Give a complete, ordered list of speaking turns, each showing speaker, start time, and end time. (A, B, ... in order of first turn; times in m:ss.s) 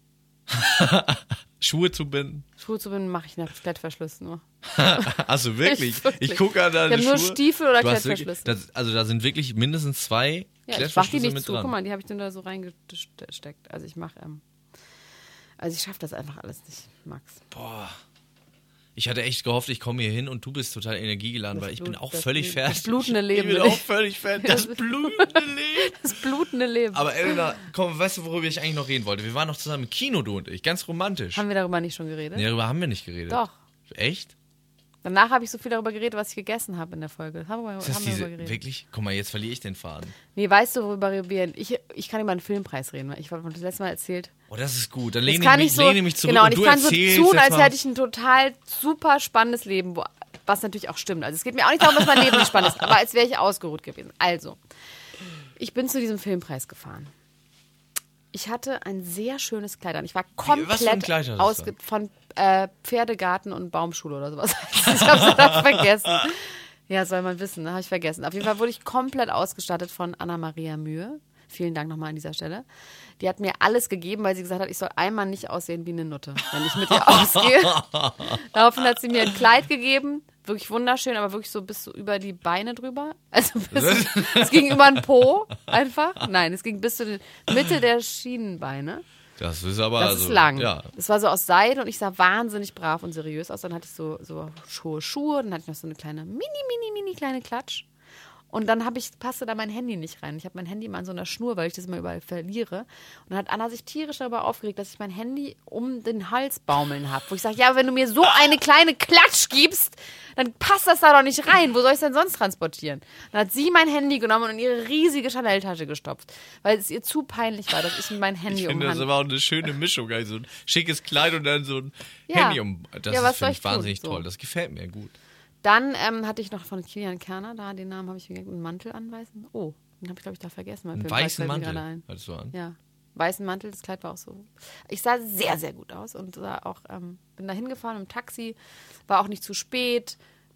0:00.5-0:02.4 A
0:02.6-0:08.5 B
0:04.6-0:11.7 A
0:10.7-0:14.4 B
0:15.6-0:17.4 B
0:17.5-0:18.0 A
0:19.0-0:26.0 A
0:21.5-0:23.8 B
0:24.4-0:27.5 B
0:26.9-0:31.4 A
0:31.3-0:32.4 B
0:32.3-0:34.3 A
0:33.3-0:33.5 B
0:35.0-0:38.6 B
0:37.8-0:40.2 A
0:40.3-0:44.3 B
0:44.5-0:47.7 A
0:45.2-0:54.6 B
0:55.6-0:57.1 B
0:58.3-1:12.6 B
1:00.4-1:01.7 A
1:13.2-1:29.0 B
1:16.9-1:18.3 A
1:23.7-1:25.0 A
1:29.4-1:30.9 A
1:30.0-1:37.9 B
1:38.5-1:59.1 B
1:58.5-2:05.1 A
2:02.3-2:04.2 B
2:05.6-2:18.6 B
2:10.9-2:12.5 A
2:19.1-2:20.2 B